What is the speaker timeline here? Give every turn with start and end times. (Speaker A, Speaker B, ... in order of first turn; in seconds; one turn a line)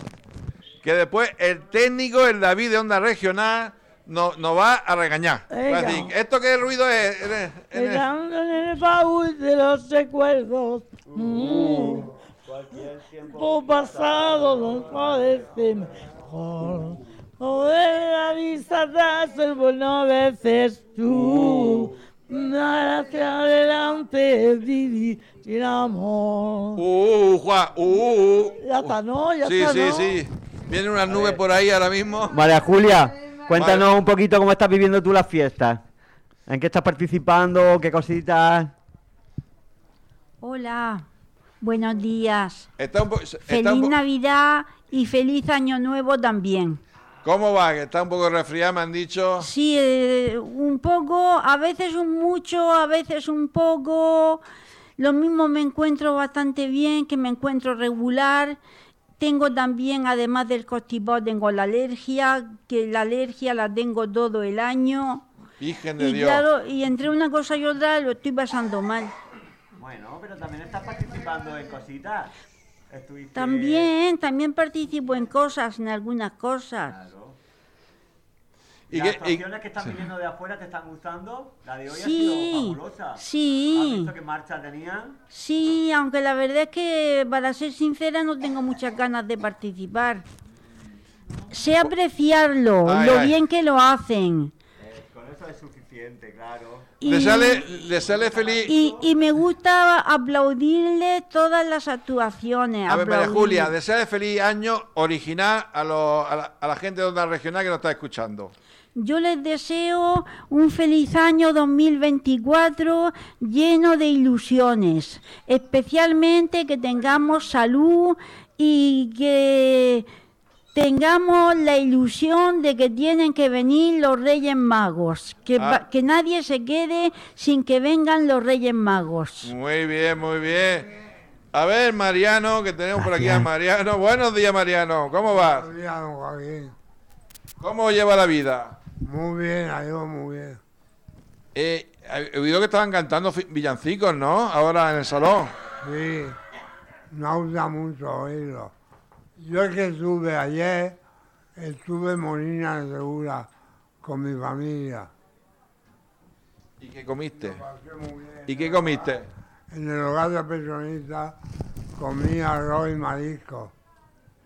Speaker A: 0.8-8.0
Speaker B: 5.5-6.1
Speaker B: 7.7-12.1
Speaker C: 11.1-15.3
Speaker B: 13.3-26.8
Speaker A: 21.1-21.9
Speaker A: 26.8-32.4
Speaker B: 28.6-30.2
Speaker D: 32.3-35.8
Speaker A: 33.5-33.9
Speaker D: 36.5-38.7
Speaker E: 40.4-41.0
Speaker E: 41.6-42.7
Speaker A: 42.8-43.9
Speaker E: 43.5-46.8
Speaker A: 47.2-49.5
Speaker E: 49.4-54.4
Speaker E: 55.0-58.6
Speaker E: 59.2-65.2
Speaker A: 65.6-66.4
Speaker E: 66.0-69.1
Speaker C: 69.8-72.3
Speaker C: 72.9-73.9
Speaker E: 73.3-77.0
Speaker C: 76.8-77.4
Speaker C: 78.9-85.2
Speaker A: 78.9-79.9
Speaker E: 81.9-84.1
Speaker E: 85.3-90.2
Speaker E: 91.5-94.5
Speaker A: 92.8-93.4
Speaker C: 94.8-96.9
Speaker E: 97.0-97.6
Speaker A: 97.0-98.7
Speaker C: 97.8-99.1
Speaker E: 98.7-103.7
Speaker A: 102.9-108.5
Speaker E: 109.0-120.1
Speaker E: 120.7-129.5
Speaker A: 125.6-125.8
Speaker A: 129.4-130.9
Speaker A: 131.5-135.7
Speaker F: 135.4-136.7
Speaker A: 137.6-138.8
Speaker F: 139.0-140.6
Speaker A: 141.5-145.5
Speaker F: 145.8-146.4
Speaker F: 147.1-148.7
Speaker F: 149.4-151.0
Speaker F: 151.6-153.5
Speaker F: 154.0-155.1
Speaker A: 156.8-157.6
Speaker F: 157.4-159.0
Speaker A: 158.4-159.3
Speaker F: 159.7-161.3
Speaker F: 161.9-163.7